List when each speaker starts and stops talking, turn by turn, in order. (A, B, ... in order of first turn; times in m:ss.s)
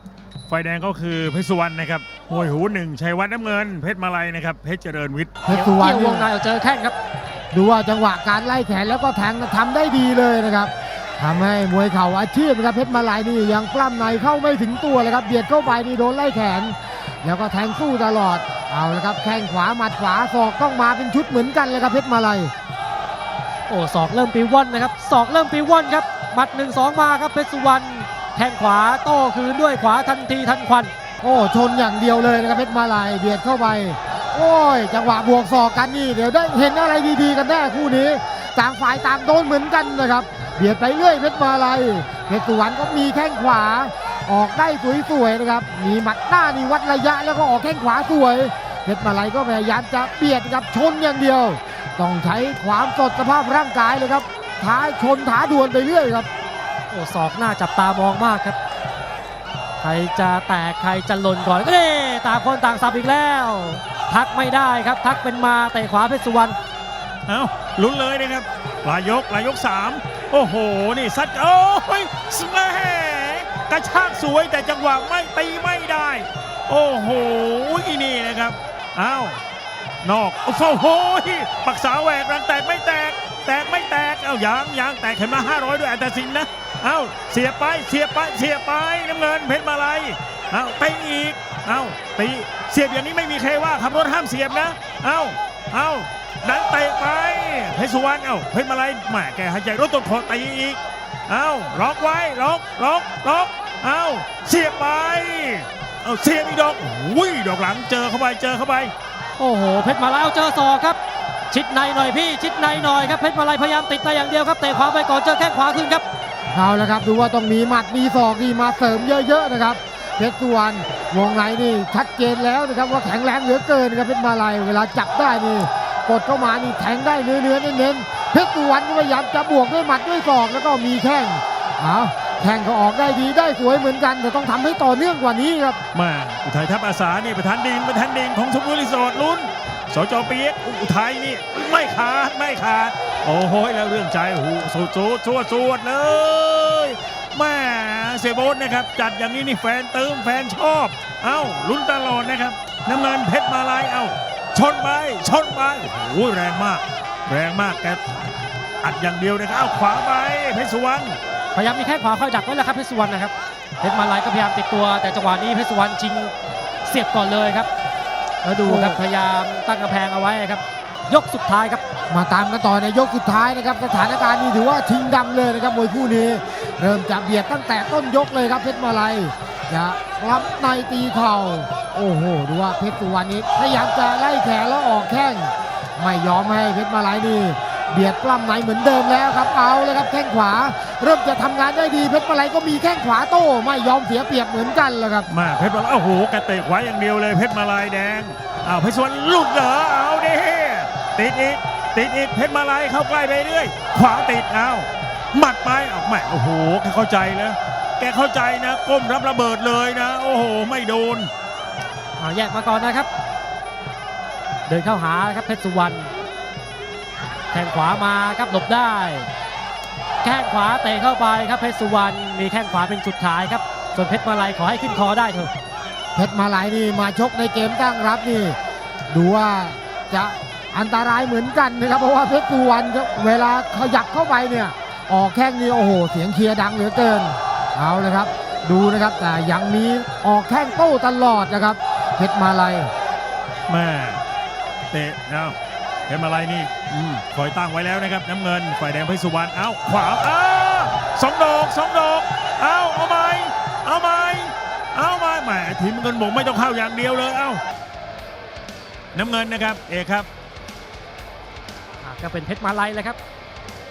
0:00.5-0:05.3 A
0:05.4-0:06.3 B
0:05.5-0:07.0 C
0:07.5-0:22.5 B
0:23.7-0:30.9 C
0:31.2-0:56.3 B
0:56.9-0:58.6 C
0:59.8-1:06.6 C
1:07.3-1:19.4 A
1:20.0-1:48.9 A
1:49.4-1:51.0 C
1:51.5-1:56.0 C
1:56.5-2:15.8 B
2:15.9-2:38.0 A
2:38.8-2:41.2 A
2:41.6-2:46.3 C
2:46.8-2:47.7 C
2:48.4-2:51.8 C
2:48.6-2:49.0 B
2:52.1-3:15.3 B
3:15.3-3:31.3 A
3:32.2-3:33.1 C
3:34.7-3:36.1 C
3:37.5-3:39.3 C
3:40.2-3:45.5 C
3:46.2-3:48.6 B
3:49.1-4:02.9 B
4:03.7-4:04.2 A
4:04.9-4:05.6 A
4:06.1-4:17.6 A
4:19.2-4:20.3 A
4:22.0-4:23.2 C